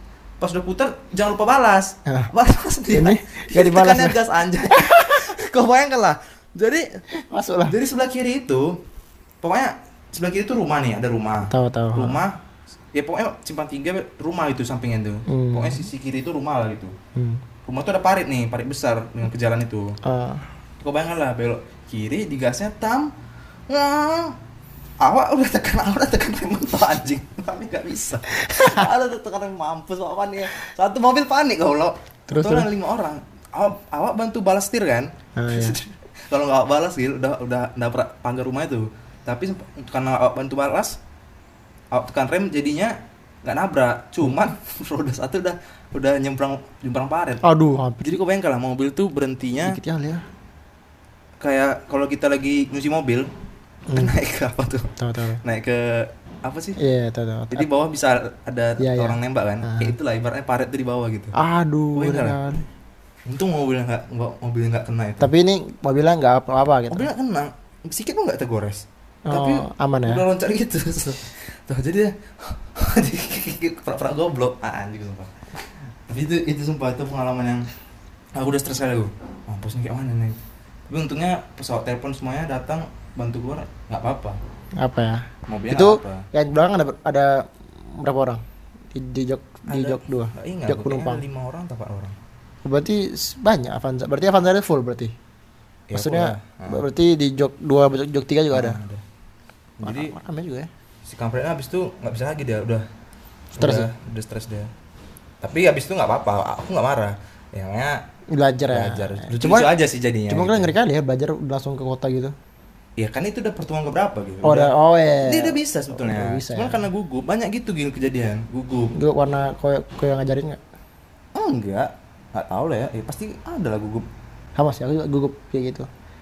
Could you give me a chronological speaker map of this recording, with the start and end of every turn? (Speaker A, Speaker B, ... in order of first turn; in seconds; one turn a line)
Speaker A: 0.4-7.0
Speaker B: 2.1-2.3
Speaker B: 2.9-5.3
Speaker B: 7.1-7.8
Speaker A: 7.6-8.8
Speaker A: 9.4-12.4
Speaker B: 11.5-12.2
Speaker A: 12.9-16.9
Speaker B: 15.3-15.9
Speaker B: 17.1-17.4
Speaker A: 17.6-19.9
Speaker B: 20.0-20.5
Speaker A: 20.8-23.1
Speaker A: 23.7-24.4
Speaker A: 25.0-41.0
Speaker B: 28.3-28.9
Speaker B: 32.3-32.7
Speaker B: 35.4-35.8
Speaker A: 41.9-47.4
Speaker B: 47.4-48.2
Speaker A: 48.0-49.8
Speaker B: 49.6-50.2
Speaker A: 51.4-53.3
Speaker B: 53.9-54.1
Speaker A: 53.9-56.8
Speaker B: 55.0-55.4
Speaker B: 56.8-57.7
Speaker A: 57.5-61.3
Speaker B: 58.8-60.0
Speaker B: 61.3-62.6
Speaker A: 61.9-62.4
Speaker A: 63.2-65.3
Speaker B: 65.2-67.1
Speaker A: 66.9-77.7
Speaker B: 69.3-70.2
Speaker A: 78.3-84.4
Speaker B: 84.8-88.4
Speaker A: 85.5-86.2
Speaker B: 88.9-91.2
Speaker A: 89.7-92.2
Speaker B: 92.6-95.1
Speaker A: 95.9-96.8
Speaker B: 95.9-98.8
Speaker A: 98.5-99.0
Speaker A: 99.8-100.1
Speaker B: 99.8-100.7
Speaker A: 101.0-102.8
Speaker B: 103.5-103.9
Speaker A: 103.6-104.7
Speaker A: 105.4-108.0
Speaker B: 108.3-109.7
Speaker A: 108.7-110.7
Speaker B: 110.3-112.3
Speaker A: 113.0-114.7
Speaker B: 114.4-116.9
Speaker A: 115.2-118.9
Speaker B: 118.9-120.6
Speaker A: 121.3-124.1
Speaker B: 124.6-125.9